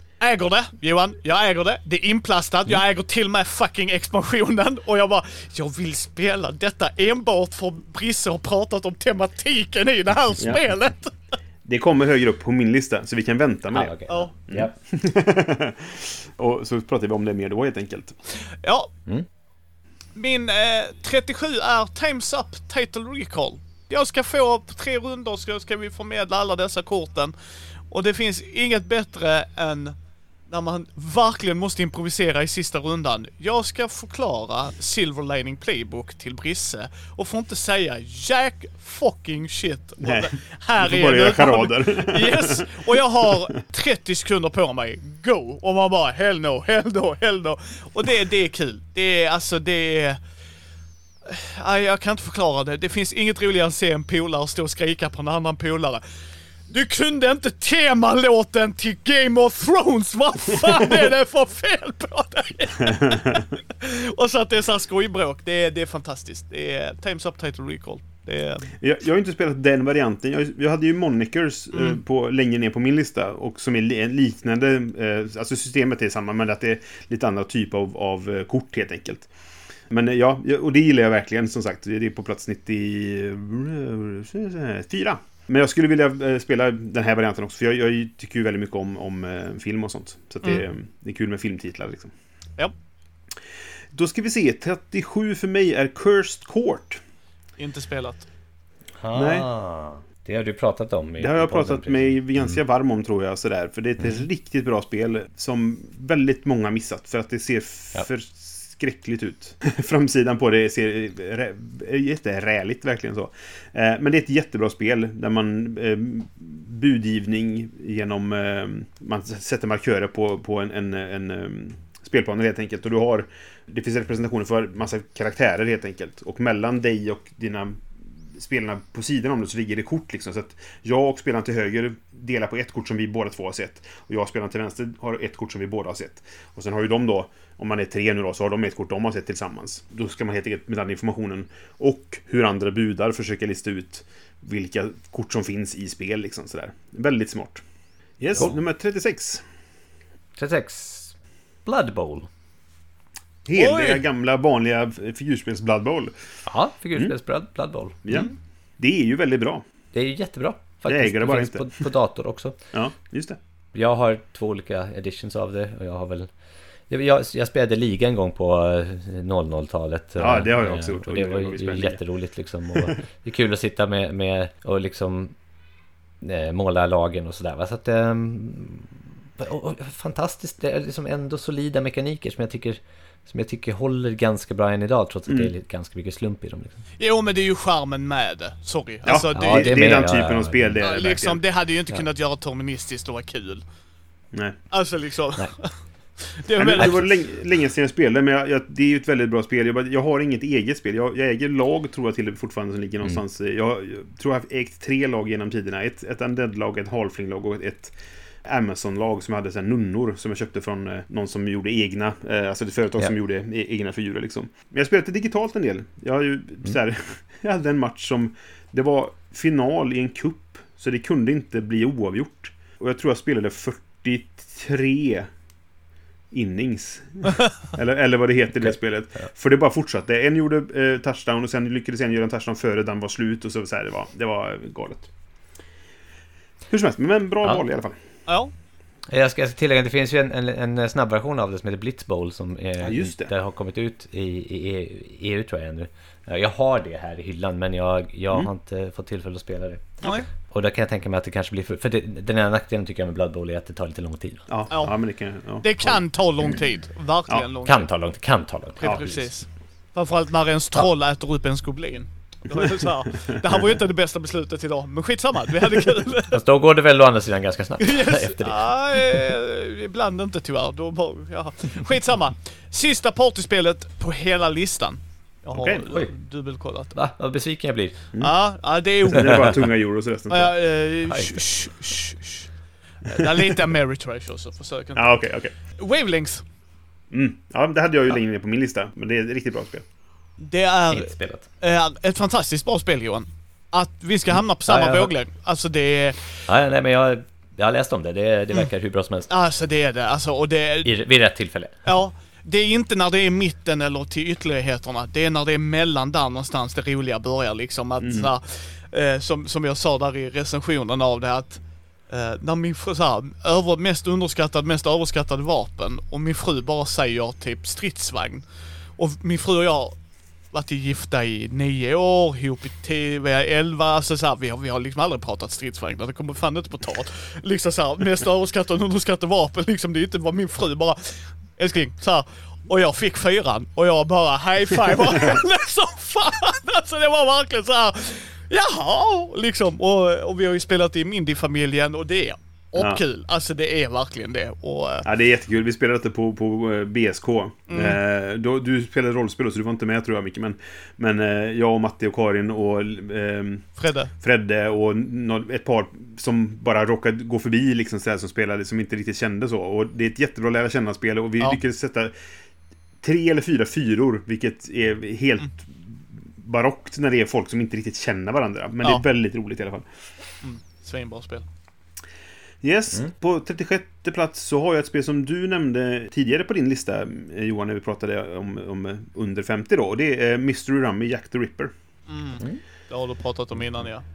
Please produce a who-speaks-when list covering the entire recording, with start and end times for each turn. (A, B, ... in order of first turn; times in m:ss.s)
0:00.2-0:11.2 A
0:11.6-0:13.9 B
0:13.7-0:14.7 C
0:14.5-0:18.2 B
0:18.5-0:18.9 A
0:20.1-0:27.3 A
0:27.9-0:30.0 A
0:30.5-0:50.2 A
0:40.0-0:40.3 B
0:40.8-0:42.7 B
0:51.2-0:56.0 A
0:56.7-1:08.7 A
1:02.8-1:03.4 B
1:08.8-1:19.3 B
1:19.9-1:32.1 B
1:33.9-1:37.0 B
1:37.6-1:38.2 A
1:39.0-1:42.6 C
1:39.1-1:39.4 B
1:41.2-2:07.8 B
2:08.3-2:27.6 B
2:28.2-2:29.4 B
2:30.4-2:31.1 C
2:31.6-2:32.3 C
2:33.4-2:36.1 B
2:33.6-2:34.0 A
2:36.4-2:38.2 C
2:38.0-2:39.6 B
2:39.9-2:42.6 C
2:40.8-2:41.9 B
2:42.7-2:43.4 B
2:43.7-2:46.3 C
2:46.9-2:55.3 C
2:50.2-2:52.0 B
2:52.7-2:53.0 B
2:56.2-3:06.8 C
3:05.3-3:05.5 B
3:07.0-3:10.0 A
3:09.0-3:11.4 B
3:09.3-3:10.8 C
3:10.8-3:13.6 A
3:14.7-3:17.1 A
3:16.6-3:27.9 B
3:16.8-3:17.1 C
3:28.4-3:45.3 B
3:46.3-3:55.1 B
3:48.6-3:49.2 C
3:56.7-3:57.9 B
3:58.3-3:58.5 A
3:59.1-4:14.4 C
4:02.8-4:03.3 B
4:14.5-4:16.5 B
4:15.6-4:17.9 A
4:17.6-4:19.2 C
4:18.8-4:26.4 A
4:18.8-4:19.1 B
4:26.3-4:29.2 C
4:27.8-4:36.9 A
4:35.5-4:35.9 B
4:36.9-4:38.0 C
4:38.2-4:39.4 A
4:39.0-4:40.6 B
4:40.3-4:42.5 A
4:41.1-4:41.4 C
4:43.0-4:45.2 A
4:45.0-4:45.5 B
4:45.7-4:46.4 A
4:47.1-4:49.8 B
4:50.4-4:56.4 A
4:50.9-4:51.4 C
4:54.7-4:55.1 C
4:56.5-4:59.3 C
4:59.3-5:00.9 A
5:00.8-5:01.8 C
5:01.8-5:18.4 A
5:08.0-5:08.3 B
5:19.0-5:19.9 A
5:20.5-5:45.0 A
5:42.8-5:43.0 B
5:45.0-6:02.1 B
5:47.7-5:48.0 A
5:53.8-5:54.1 A
6:03.0-6:09.8 B
6:10.4-6:11.4 A
6:12.6-6:21.7 B
6:22.1-6:24.0 A